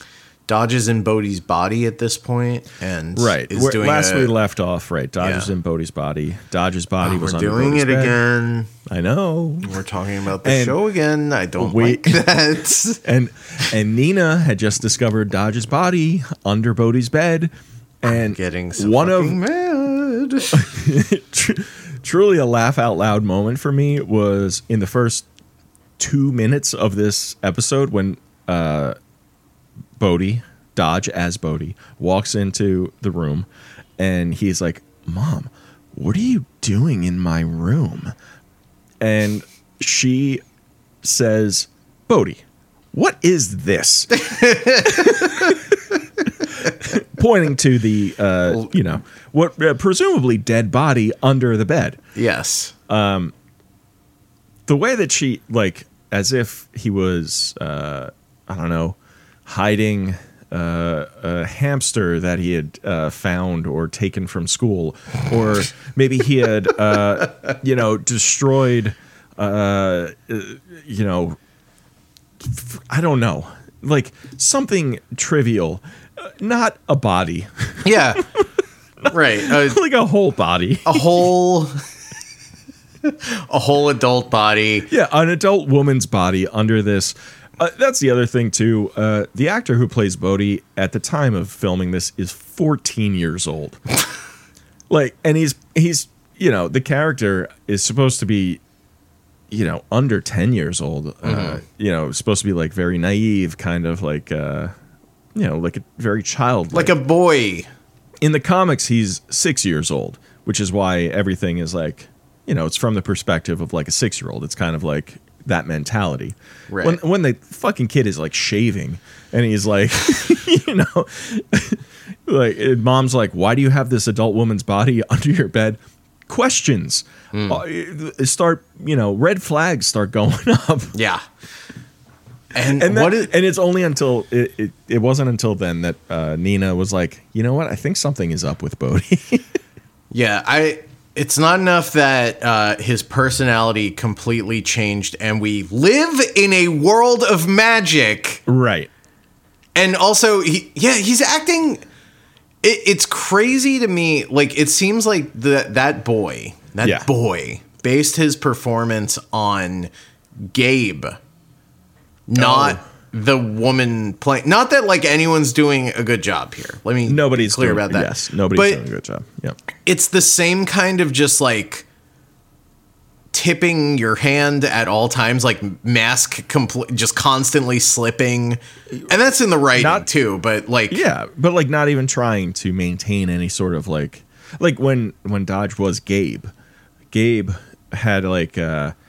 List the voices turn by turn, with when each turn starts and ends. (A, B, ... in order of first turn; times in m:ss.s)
0:00.5-0:04.3 A
0:03.1-0:08.2 B
0:05.2-0:05.5 A
0:07.0-0:08.7 A
0:08.9-0:09.8 B
0:09.6-0:13.0 A
0:10.4-0:10.8 B
0:11.6-0:12.2 B
0:13.0-0:19.4 B
0:18.0-0:20.6 A
0:20.5-0:25.2 B
0:26.0-0:29.0 B
0:30.0-0:33.5 B
0:34.0-0:38.1 B
0:39.0-0:40.4 B
0:41.0-0:45.6 B
0:44.2-0:45.5 A
0:46.4-0:52.0 B
0:52.1-0:52.7 A
0:52.9-0:53.3 B
0:54.7-1:11.4 B
1:12.4-1:18.4 B
1:17.8-1:18.2 A
1:19.0-1:21.2 B
1:19.1-1:19.8 A
1:20.8-1:21.8 A
1:23.0-1:24.9 A
1:24.9-1:33.8 B
1:34.9-1:38.6 B
1:39.5-1:44.7 B
1:41.2-1:41.6 A
1:45.3-1:46.9 B
1:46.7-1:47.7 A
1:48.2-2:11.0 B
1:56.7-1:57.0 A
2:07.3-2:07.6 A
2:10.9-2:11.2 A
2:12.5-2:13.3 A
2:12.7-2:19.4 B
2:20.1-2:28.4 A
2:28.5-2:28.9 B
2:29.7-2:31.8 A
2:32.6-2:39.9 A
2:36.8-2:37.1 B
2:40.4-2:41.2 A
2:42.3-2:48.8 A
2:42.4-2:42.8 B
2:47.0-2:49.6 B
2:49.8-2:51.8 A
2:53.3-3:01.0 A
2:59.8-3:00.1 B
3:00.9-3:06.5 B
3:07.1-3:08.9 B